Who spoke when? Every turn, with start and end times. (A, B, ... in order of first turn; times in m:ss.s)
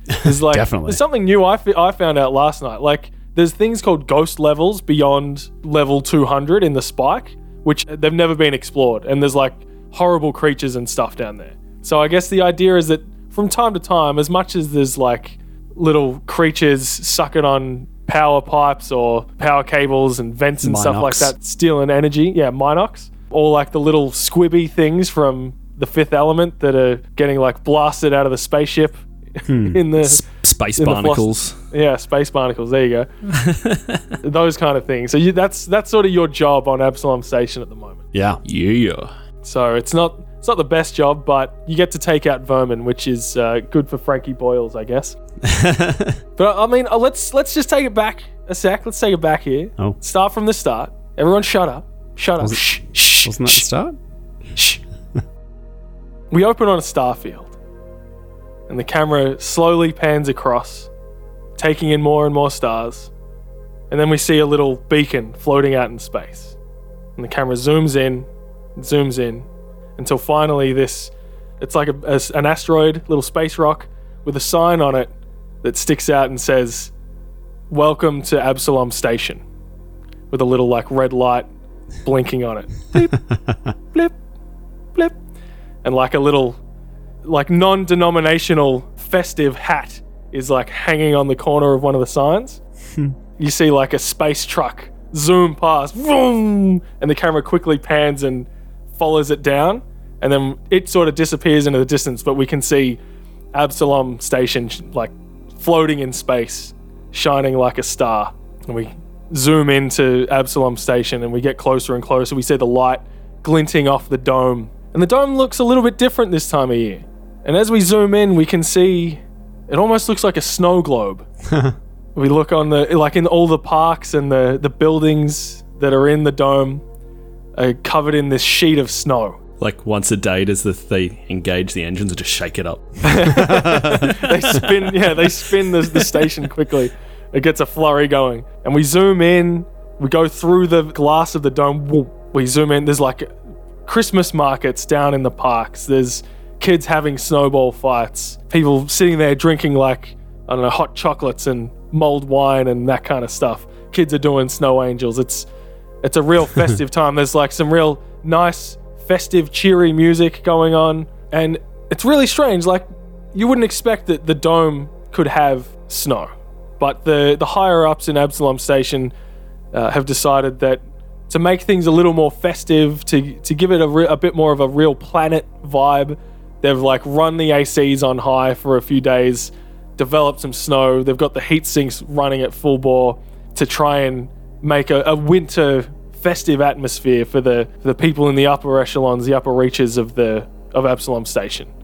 0:00.2-0:30.2 A
0:00.2-0:01.0 B
0:20.6-0:21.3 B
0:29.4-0:29.8 B
0:30.2-0:31.5 C
0:30.8-0:33.1 A
0:33.4-0:34.0 C
0:34.2-0:38.0 A
0:38.1-0:38.4 B
0:38.4-0:39.1 C
0:39.4-0:45.2 A
0:45.4-0:46.2 B
0:46.4-0:53.6 A
0:53.2-0:53.9 B
0:56.3-0:57.5 A
0:58.7-1:00.9 A
1:01.6-1:03.1 A
1:03.9-1:06.5 A
1:07.2-1:09.5 A
1:10.0-1:15.1 A
1:15.6-1:16.9 A
1:17.7-1:19.4 A
1:20.3-1:21.5 A
1:22.0-1:23.2 A
1:25.8-1:26.6 A
1:27.2-1:32.6 A
1:33.4-1:43.0 A
1:43.5-2:01.2 A
2:01.5-2:01.7 B
2:02.1-2:06.8 A
2:07.6-2:09.4 A
2:09.6-2:13.3 C
2:13.0-2:23.3 A
2:13.4-2:14.1 B
2:13.9-2:15.2 C
2:16.0-2:16.2 C
2:23.8-2:35.5 A
2:36.0-2:49.1 A
2:49.7-3:11.7 A